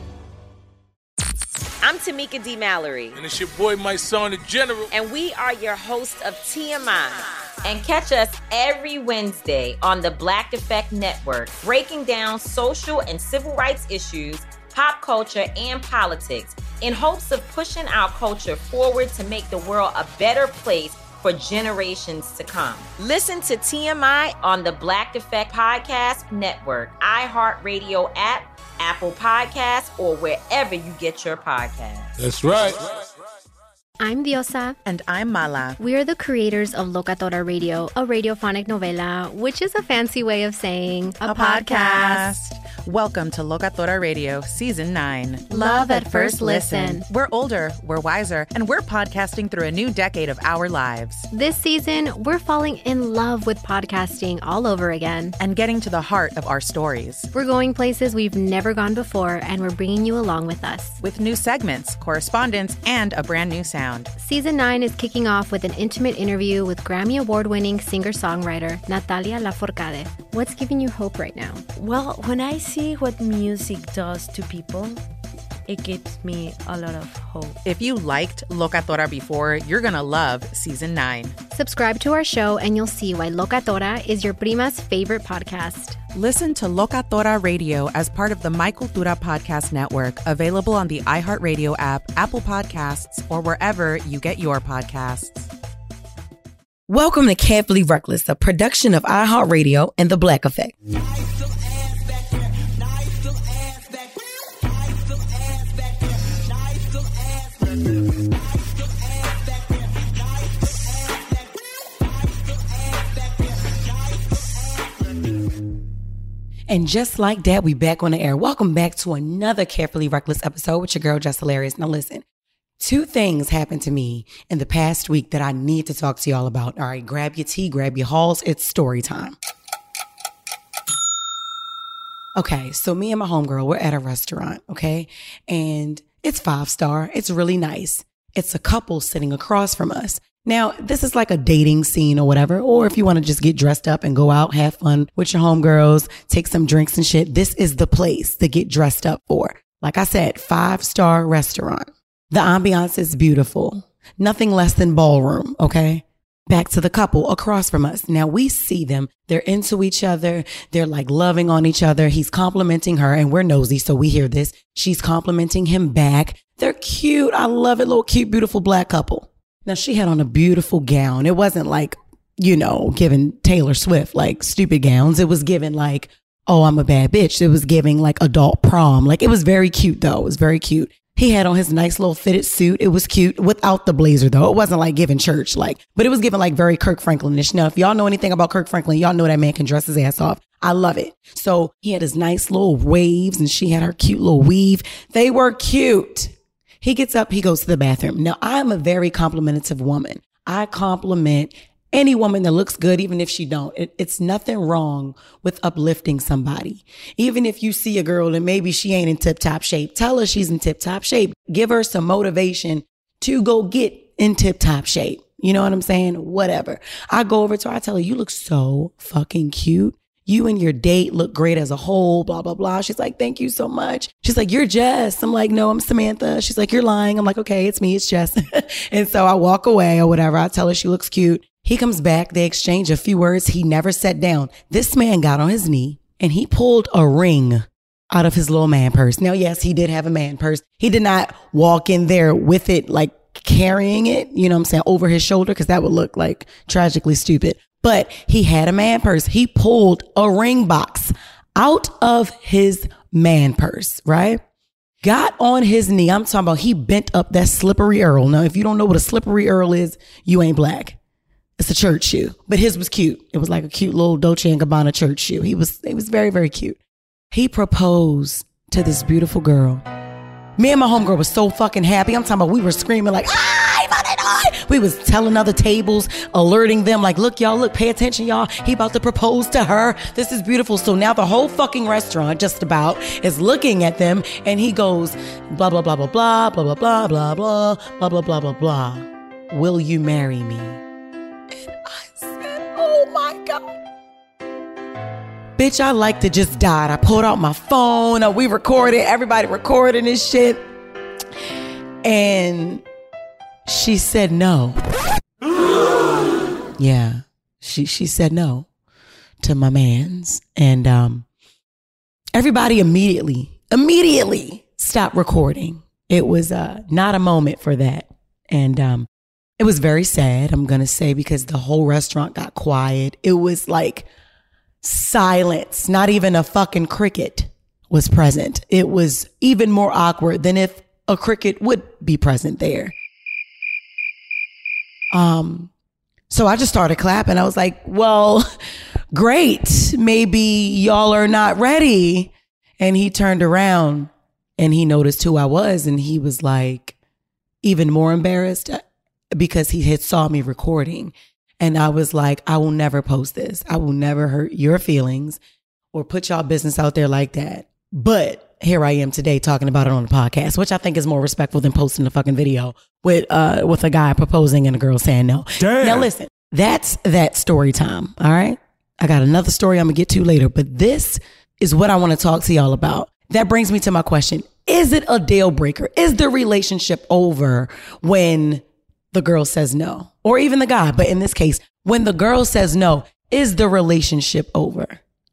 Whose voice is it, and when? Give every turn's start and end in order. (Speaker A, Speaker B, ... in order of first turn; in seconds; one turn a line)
Speaker A: 1.8-3.2
Speaker B: 3.1-4.9
Speaker A: 4.9-32.1
Speaker B: 32.2-32.9
Speaker C: 34.0-34.8
Speaker D: 34.9-35.8
Speaker C: 35.8-42.3
Speaker D: 41.2-51.3
Speaker C: 45.5-47.0
Speaker C: 51.3-55.4
Speaker D: 55.4-57.3
Speaker C: 57.3-61.0
Speaker D: 61.0-64.1
Speaker C: 64.2-71.6
Speaker E: 71.8-75.0
Speaker E: 75.7-77.6
Speaker D: 77.6-81.3
Speaker C: 81.5-86.0
Speaker D: 86.1-95.5
Speaker F: 96.9-100.8
Speaker F: 116.7-122.2
Speaker F: 122.8-129.4
Speaker F: 132.4-254.4
Speaker F: 255.0-261.0
Speaker F: 261.6-266.8
Speaker F: 267.3-269.8
Speaker F: 270.6-290.8
Speaker F: 291.5-293.8
Speaker F: 295.6-300.7
Speaker F: 302.0-302.8
Speaker F: 303.7-304.8
Speaker F: 306.8-308.7
Speaker F: 309.4-311.3
Speaker F: 312.3-319.1
Speaker F: 319.6-324.1
Speaker F: 324.8-332.9
Speaker F: 335.1-335.7
Speaker F: 336.3-338.5
Speaker F: 339.1-346.9
Speaker F: 347.6-355.4
Speaker F: 355.9-385.0